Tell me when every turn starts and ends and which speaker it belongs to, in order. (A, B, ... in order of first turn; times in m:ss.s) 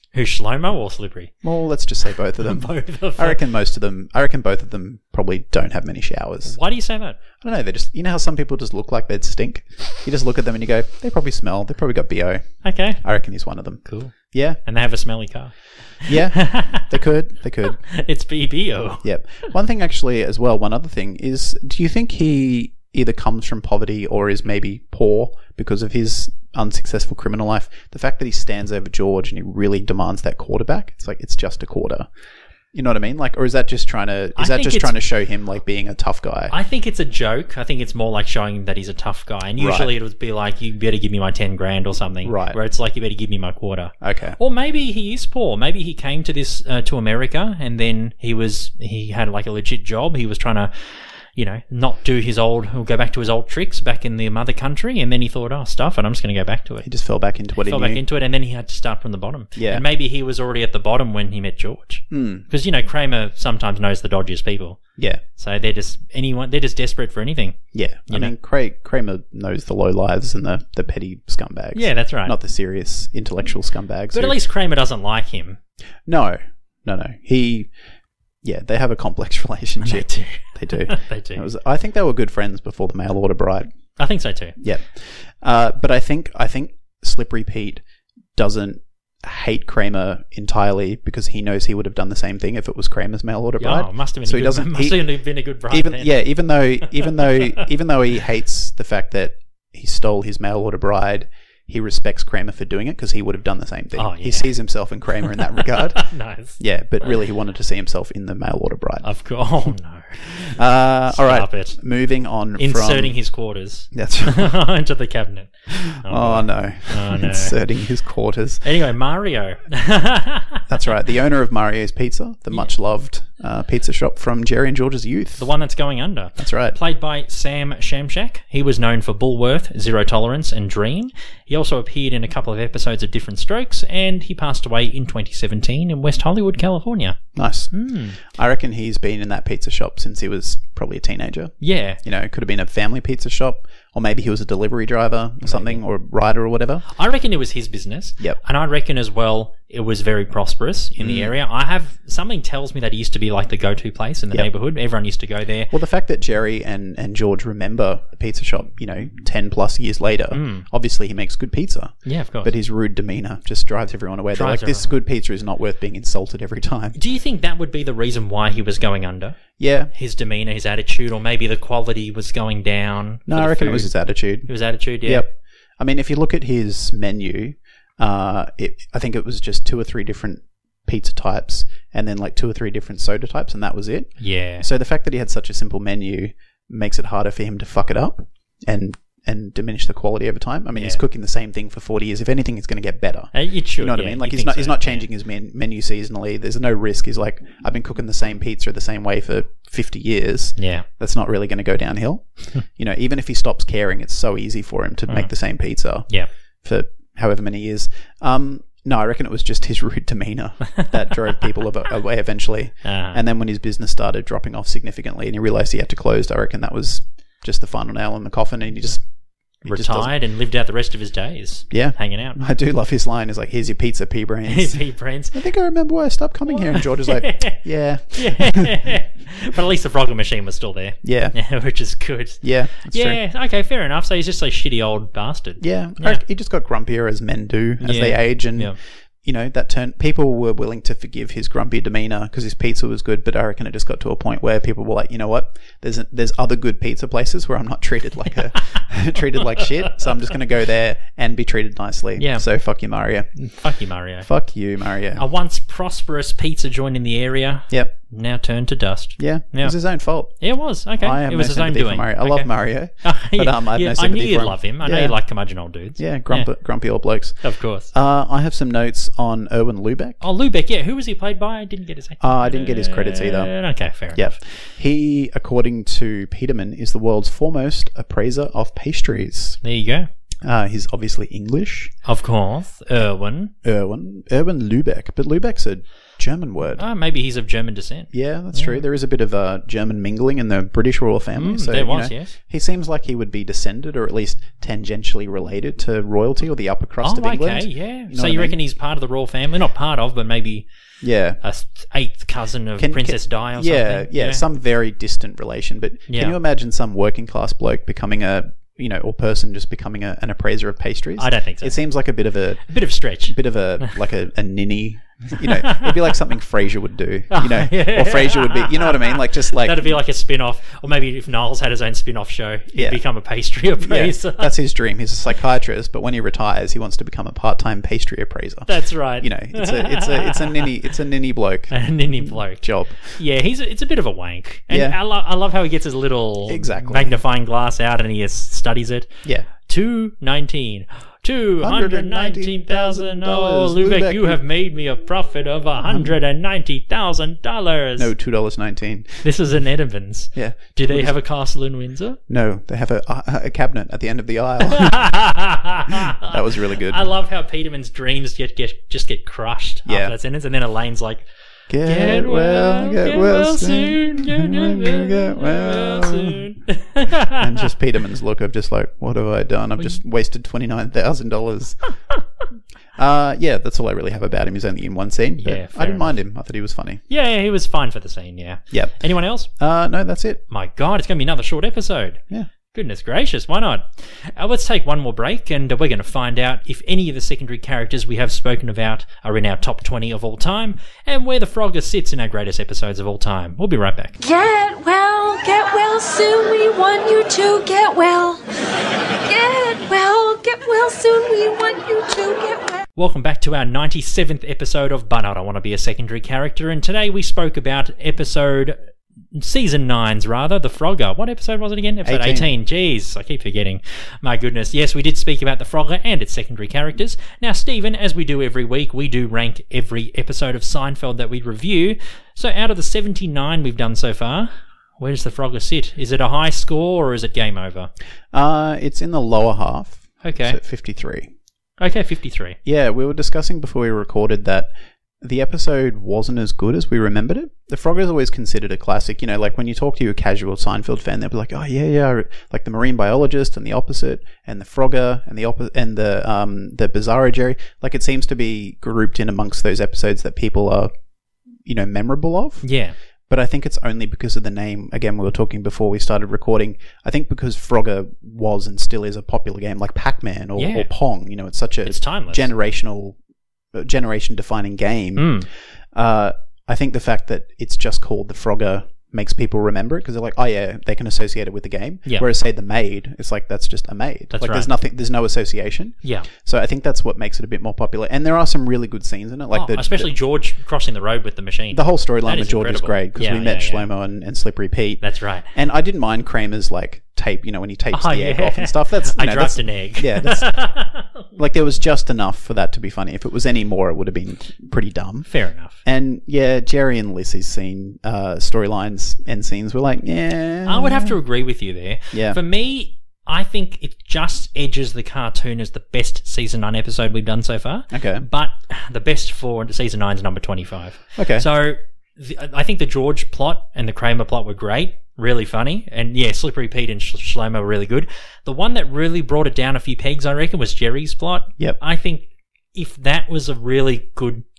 0:00.1-0:01.3 A
0:01.4-0:06.6 B
0:02.4-0:03.4 A
0:06.4-0:07.2 A
0:07.4-0:14.6 B
0:12.6-0:13.0 A
0:13.8-0:16.9 A
0:16.0-0:17.8 B
0:17.7-0:19.0 A
0:19.0-0:32.1 B
0:32.7-0:36.5 B
0:34.4-0:35.0 A
0:36.5-0:56.9 A
0:39.6-0:39.9 B
0:42.2-0:42.6 B
0:44.0-0:44.4 B
0:56.8-0:58.0 B
0:57.6-1:04.8 A
0:59.6-0:59.8 B
1:02.1-1:02.4 B
1:05.4-1:08.3 A
1:07.7-1:14.4 B
1:11.7-1:12.4 A
1:14.1-1:15.6 A
1:16.0-1:17.7 B
1:18.4-1:23.7 B
1:19.8-1:21.4 A
1:24.0-1:24.6 A
1:24.6-1:27.8 B
1:28.4-1:35.0 B
1:33.6-1:36.2 A
1:35.7-1:49.1 B
1:37.0-1:37.6 A
1:43.9-1:44.5 A
1:45.4-1:46.6 A
1:49.0-1:50.5 A
1:50.3-1:53.1 B
1:51.1-1:51.8 A
1:52.6-1:57.6 A
1:53.9-1:54.5 B
1:55.7-1:58.6 B
1:58.6-2:00.6 A
2:00.7-2:05.5 B
2:05.4-2:17.2 A
2:06.4-2:06.8 B
2:17.4-2:26.8 B
2:17.7-2:18.2 A
2:21.6-2:22.0 A
2:25.4-2:25.8 A
2:26.9-2:35.7 A
2:31.0-2:31.3 B
2:35.7-2:47.0 B
2:40.3-2:40.6 A
2:42.0-2:42.5 A
2:44.3-2:44.9 A
2:46.9-2:49.4 A
2:49.6-2:49.9 B
2:49.9-2:53.9 A
2:53.3-2:54.5 B
2:54.4-2:55.2 A
2:55.0-3:26.1 B
3:04.2-3:04.6 A
3:10.7-3:11.0 A
3:13.3-3:15.1 A
3:20.6-3:20.8 A
3:26.6-3:39.0 B
3:32.8-3:33.2 A
3:39.6-3:40.1 B
3:39.6-3:42.4 A
3:41.7-3:48.8 B
3:44.4-3:45.4 A
3:46.5-3:56.2 A
3:51.0-3:51.4 B
3:52.4-3:53.2 B
3:55.6-4:13.3 B
3:57.8-3:58.8 A
4:12.2-4:12.4 A
4:13.4-4:14.3 A
4:14.2-4:15.2 B
4:15.2-4:19.8 A
4:19.2-4:20.4 B
4:20.4-4:22.5 A
4:21.0-4:25.2 B
4:23.0-4:26.5 A
4:26.0-4:30.2 B
4:27.4-4:27.9 A
4:30.2-4:34.3 A
4:32.2-4:33.5 B
4:34.1-4:39.6 B
4:39.6-4:40.1 A
4:40.4-4:41.9 B
4:42.0-4:43.5 A
4:43.6-4:46.8 B
4:46.8-4:48.8 A
4:48.1-4:58.6 B
4:51.3-4:52.3 A
4:57.0-5:00.6 A
5:01.0-5:01.4 B
5:01.4-5:04.4 A
5:02.8-5:12.6 B
5:06.1-5:06.4 A
5:11.2-5:11.8 A
5:12.7-5:13.9 A
5:13.2-5:19.9 B
5:15.3-5:16.1 A
5:17.3-5:24.5 A
5:22.7-5:23.0 B
5:23.7-5:33.2 B
5:28.7-5:30.7 A
5:31.7-5:48.1 A
5:34.7-5:35.0 B
5:36.5-5:37.2 B
5:41.6-5:44.4 B
5:45.8-5:46.2 B
5:48.0-5:49.2 B
5:49.2-5:52.2 A
5:50.3-5:51.1 B
5:52.3-5:55.1 B
5:54.7-6:01.3 A
5:55.9-5:57.1 B
5:59.9-6:00.1 B
6:01.7-6:06.4 B
6:01.8-6:07.7 A
6:07.3-6:11.8 B
6:13.0-6:17.0 B
6:15.4-6:16.2 A
6:17.1-6:19.5 A
6:19.6-6:20.4 B
6:20.5-6:34.2 A
6:34.2-6:38.4 C
6:39.2-6:42.8 C
6:43.0-6:48.8 A
6:49.3-7:07.9 A
6:52.0-6:52.5 B
7:08.3-7:11.3 B
7:10.2-7:10.6 A
7:11.8-7:12.6 A
7:12.6-7:14.7 B
7:15.2-7:30.9 B
7:31.6-7:32.6 B
7:32.6-7:32.9 A
7:33.3-7:43.2 B
7:40.6-7:40.9 A
7:41.8-7:42.5 A
7:43.7-8:00.1 B
7:45.2-7:45.5 A
7:54.3-7:54.7 A
7:56.0-7:56.3 A
7:59.5-8:03.9 A
8:01.7-8:05.0 B
8:05.0-8:05.5 A
8:05.5-8:10.5 B
8:07.9-8:11.2 A
8:11.4-8:15.3 B
8:15.3-8:15.8 A
8:15.8-8:21.2 B
8:20.6-8:44.4 A
8:22.1-8:22.4 B
8:27.9-8:28.2 B
8:31.2-8:31.4 B